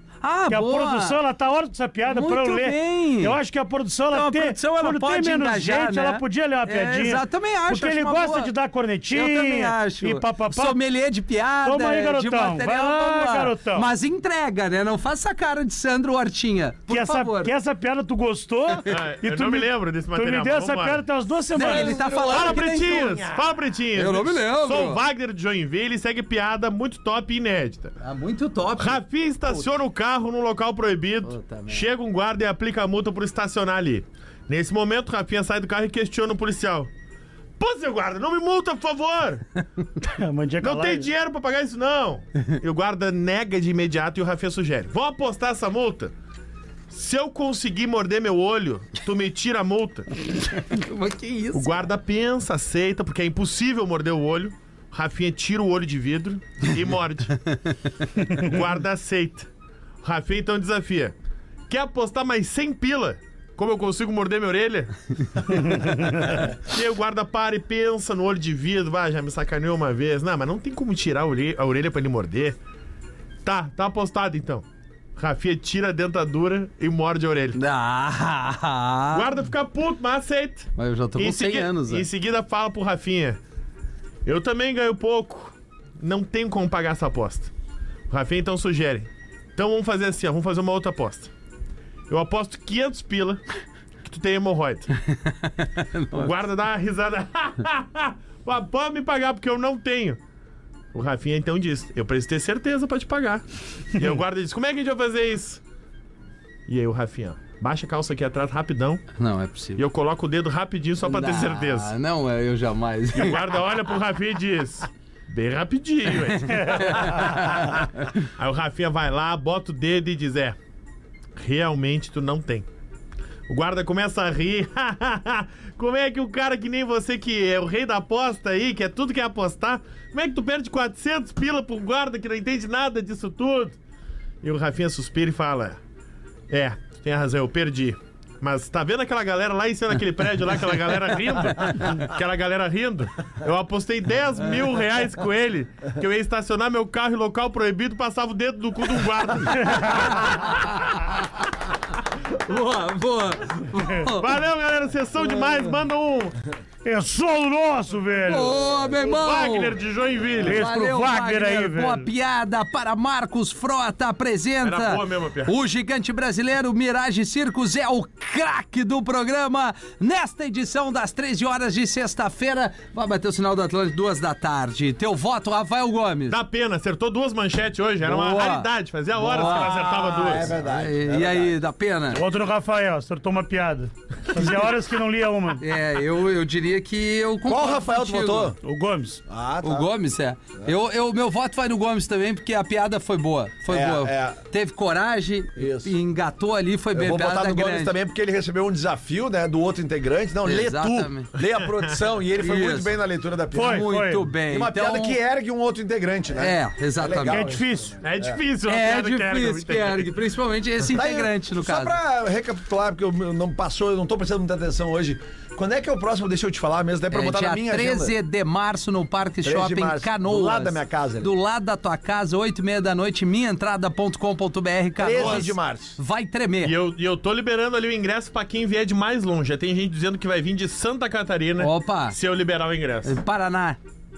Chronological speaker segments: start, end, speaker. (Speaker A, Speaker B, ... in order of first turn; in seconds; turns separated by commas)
Speaker A: 0.2-1.2, Speaker B: 0.5-10.8, Speaker A: 2.1-3.4, Speaker A: 4.1-8.5, Speaker A: 9.1-17.5, Speaker B: 11.6-13.9, Speaker B: 16.9-22.0, Speaker C: 18.9-21.0, Speaker A: 21.5-23.2, Speaker D: 21.6-23.5, Speaker C: 22.2-27.9, Speaker A: 24.0-25.0, Speaker A: 28.0-29.0, Speaker C: 28.8-36.9, Speaker A: 31.2-31.9, Speaker C: 37.6-39.4, Speaker B: 40.0-41.1, Speaker C: 40.6-46.1, Speaker C: 46.9-50.1, Speaker A: 50.5-51.8, Speaker C: 51.5-57.4, Speaker C: 58.3-59.5, Speaker C: 60.0-61.1, Speaker C: 61.7-72.6, Speaker C: 73.4-74.6, Speaker C: 75.2-77.6, Speaker A: 77.5-79.3, Speaker C: 79.1-83.4, Speaker A: 80.8-82.1, Speaker C: 84.2-87.5, Speaker C: 88.1-91.3, Speaker C: 92.1-93.4, Speaker C: 94.0-94.9, Speaker A: 95.1-96.3, Speaker C: 96.1-100.2, Speaker C: 100.9-105.6, Speaker C: 106.7-109.0, Speaker A: 109.2-109.8, Speaker C: 109.8-111.9, Speaker A: 111.0-113.4, Speaker C: 113.1-120.5, Speaker A: 116.3-118.1, Speaker B: 116.5-117.4, Speaker C: 121.3-122.7, Speaker C: 123.5-133.8, Speaker C: 134.4-135.8, Speaker C: 136.5-150.5, Speaker B: 149.5-150.1, Speaker A: 149.9-151.1, Speaker A: 152.3-154.3, Speaker C: 154.0-156.4, Speaker B: 156.8-158.6, Speaker A: 158.2-159.8, Speaker C: 159.0-160.6, Speaker B: 160.4-162.1, Speaker A: 160.4-176.4, Speaker C: 164.6-165.5, Speaker C: 176.3-180.5, Speaker A: 178.0-178.7, Speaker A: 179.2-179.8, Speaker B: 179.2-180.0, Speaker D: 179.5-181.6, Speaker A: 180.4-182.2, Speaker B: 182.1-185.6, Speaker A: 185.6-188.5, Speaker D: 187.5-188.6, Speaker B: 188.6-189.2, Speaker D: 189.3-189.9, Speaker A: 189.6-197.9, Speaker D: 193.7-194.4, Speaker D: 195.6-195.9, Speaker D: 196.9-208.4, Speaker A: 200.4-201.3, Speaker C: 201.4-202.0, Speaker A: 202.3-202.9, Speaker B: 203.5-204.3, Speaker A: 203.5-205.2, Speaker A: 206.3-207.5, Speaker B: 207.3-208.0, Speaker C: 208.0-210.1, Speaker A: 208.7-212.0, Speaker D: 210.9-218.2, Speaker A: 217.1-226.7, Speaker D: 219.4-221.3, Speaker D: 225.0-226.0, Speaker C: 225.2-225.4, Speaker C: 226.6-233.2, Speaker A: 231.6-232.2, Speaker A: 233.0-233.8